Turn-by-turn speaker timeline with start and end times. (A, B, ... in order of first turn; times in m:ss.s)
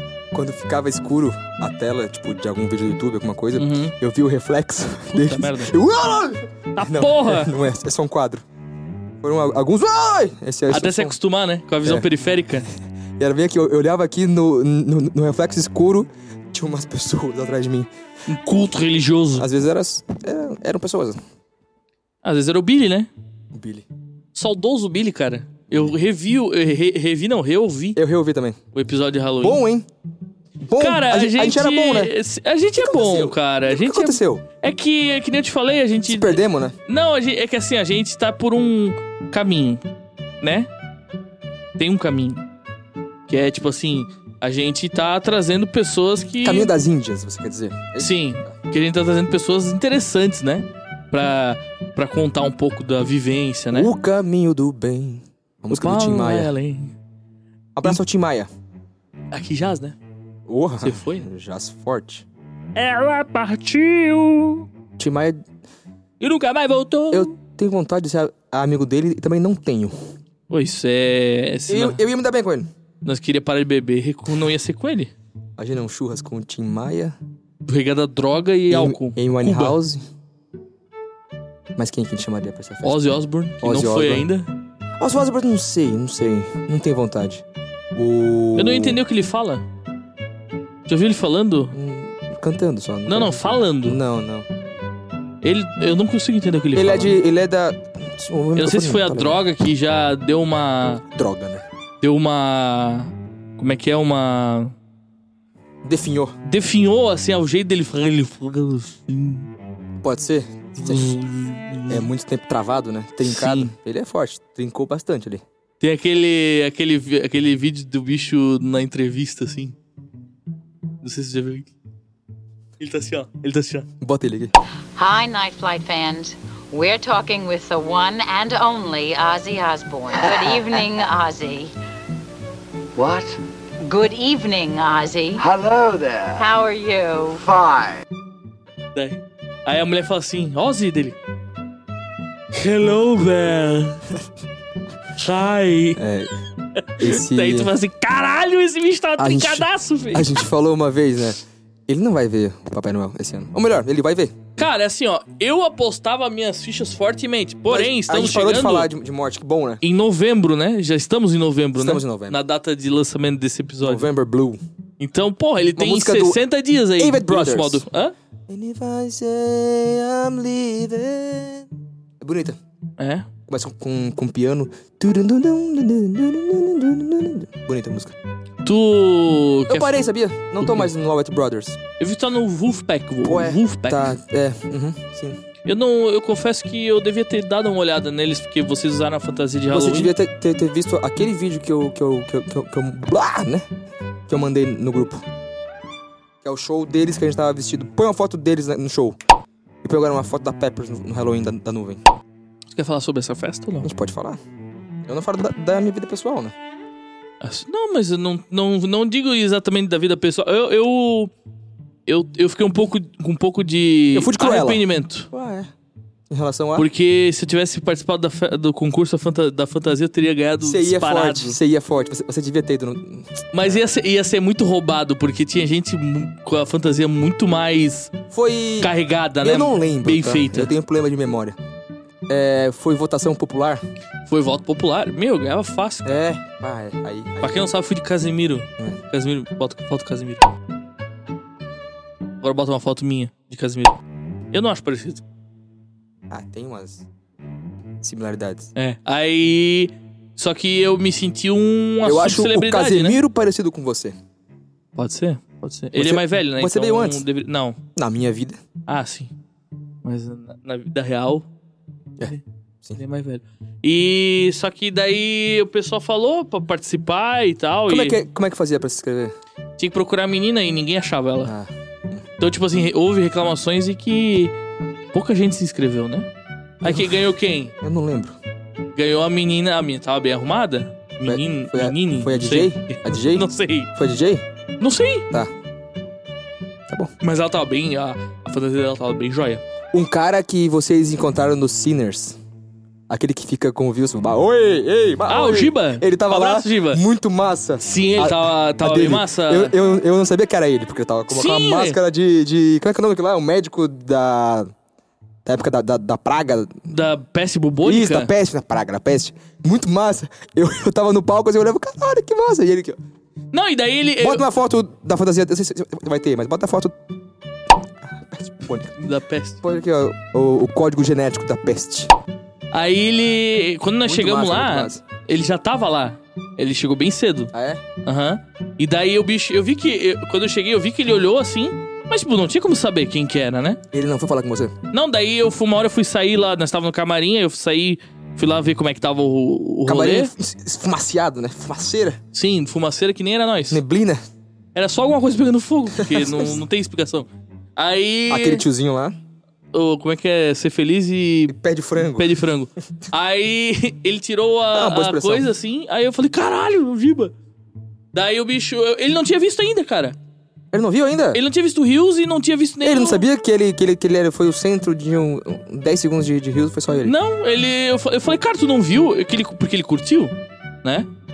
0:00.3-0:08.4 A
0:03.6-0:03.9 B
0:05.1-0:05.7 B
0:06.8-0:07.5 B
0:09.2-0:11.1 A
0:10.7-0:12.7 B
0:13.2-0:17.9 A
0:18.3-0:19.5 B
0:19.4-0:21.2 A
0:22.2-0:23.1 B
0:23.5-0:23.8 A
0:24.3-0:28.0 B
0:28.0-0:28.6 A
0:28.7-0:29.6 B
0:29.4-0:29.9 A
0:30.6-0:32.1 A
0:30.8-0:39.8 B
0:32.8-0:34.4 A
0:36.0-0:36.7 A
0:40.4-0:40.7 B
0:41.8-0:42.4 B
0:43.3-0:46.7 B
0:46.4-0:48.5 A
0:48.0-0:53.9 B
0:53.7-0:56.5 A
0:55.7-0:56.9 B
0:57.8-0:58.5 A
0:59.3-1:00.0 B
1:00.5-1:02.2 A
1:00.8-1:01.2 B
1:02.7-1:04.7 B
1:05.0-1:05.4 A
1:06.2-1:07.3 B
1:07.1-1:09.9 A
1:10.5-1:12.0 B
1:11.7-1:12.7 A
1:13.0-1:15.1 B
1:15.6-1:17.2 A
1:17.6-1:19.8 B
1:18.7-1:20.0 A
1:21.8-1:23.0 A
1:22.8-1:24.5 B
1:23.6-1:24.3 A
1:25.0-1:27.4 A
1:27.9-1:29.0 A
1:28.6-1:29.6 B
1:30.9-1:31.7 B
1:31.7-1:34.5 A
1:33.1-1:34.0 B
1:35.4-1:37.2 B
1:36.7-1:39.4 A
1:38.6-1:41.0 B
1:41.0-1:41.6 A
1:42.0-1:44.7 B
1:45.8-1:46.4 A
1:46.4-1:49.5 B
1:50.0-1:51.1 A
1:50.8-1:52.1 B
1:51.9-1:55.4 A
1:53.2-1:53.7 B
1:55.8-1:59.8 B
2:01.0-2:01.7 B
2:02.8-2:03.9 B
2:04.0-2:04.5 A
2:05.0-2:11.7 C
2:10.2-2:10.8 D
2:13.0-2:13.4 D
2:13.8-2:15.4 C
2:15.4-2:16.4 D
2:16.4-2:17.4 C
2:17.4-2:18.0 D
2:18.9-2:21.2 B
2:22.5-2:24.0 B
2:25.2-2:26.0 B
2:26.0-2:26.3 A
2:26.8-2:30.3 B
2:27.0-2:27.7 A
2:29.2-2:34.6 A
2:34.6-2:38.9 B
2:37.7-2:39.8 A
2:39.8-2:44.1 B
2:41.8-2:42.4 A
2:43.8-2:44.6 A
2:45.0-2:48.1 B
2:45.8-2:46.4 A
2:47.0-2:47.8 A
2:48.5-2:51.7 A
2:52.2-2:52.6 A
2:53.0-2:53.3 B
2:53.5-2:58.1 A
2:58.6-2:59.9 B
2:59.7-3:01.8 A
3:00.6-3:00.9 B
3:02.0-3:04.2 B
3:03.2-3:05.4 A
3:05.6-3:10.1 B
3:09.7-3:13.7 A
3:14.3-3:15.2 A
3:16.4-3:19.2 A
3:19.8-3:22.0 A
3:22.7-3:23.9 B
3:23.8-3:24.4 A
3:25.1-3:26.5 A
3:27.4-3:31.3 B
3:32.0-3:35.3 B
3:34.1-3:35.7 A
3:36.3-3:36.9 A
3:36.8-3:41.6 B
3:40.6-3:43.8 A
3:43.5-3:48.1 B
3:48.3-3:51.6 A
3:48.8-3:50.7 B
3:52.3-3:53.8 A
3:54.3-3:56.2 B
3:56.0-3:57.6 A
3:57.4-4:00.5 B
4:02.4-4:04.0 B
4:04.5-4:05.2 B
4:06.3-4:07.0 A
4:08.0-4:08.7 A
4:08.8-4:13.2 B
4:12.0-4:14.2 A
4:15.0-4:17.8 B
4:15.9-4:17.2 A
4:18.0-4:18.6 A
4:18.9-4:19.3 B
4:20.0-4:21.4 B
4:22.2-4:23.0 A
4:23.0-4:28.2 B
4:27.9-4:29.4 A
4:29.8-4:31.5 B
4:31.4-4:32.2 A
4:32.4-4:34.5 B
4:35.1-4:36.3 B
4:36.8-4:37.7 B
4:36.8-4:38.4 A
4:38.9-4:43.9 B
4:41.2-4:44.4 A
4:44.8-4:45.3 B
4:47.2-4:49.6 B
4:49.9-4:52.4 A
4:53.1-5:04.7 A
4:55.3-4:57.0 B
4:57.8-4:59.7 B
5:01.3-5:02.0 B
5:05.4-5:06.9 A
5:06.9-5:08.3 B
5:07.8-5:13.0 A
5:13.5-5:14.4 B
5:14.2-5:17.0 A
5:18.0-5:19.0 A
5:19.0-5:19.6 B
5:19.6-5:22.1 A
5:22.7-5:27.5 B
5:24.0-5:25.0 A
5:27.5-5:27.8 A
5:28.0-5:33.8 B
5:33.9-5:34.7 A
5:34.9-5:40.3 B
5:39.8-5:42.2 A
5:42.3-5:43.8 B
5:43.7-5:44.2 A
5:44.7-5:48.6 B
5:45.9-5:46.6 A
5:48.3-5:49.2 A
5:49.7-5:51.6 B
5:51.5-5:52.4 A
5:52.2-5:57.3 B
5:54.7-5:55.5 A
5:58.1-6:00.2 B
6:00.7-6:01.4 A
6:01.3-6:03.2 B
6:02.8-6:07.1 A
6:07.0-6:11.1 B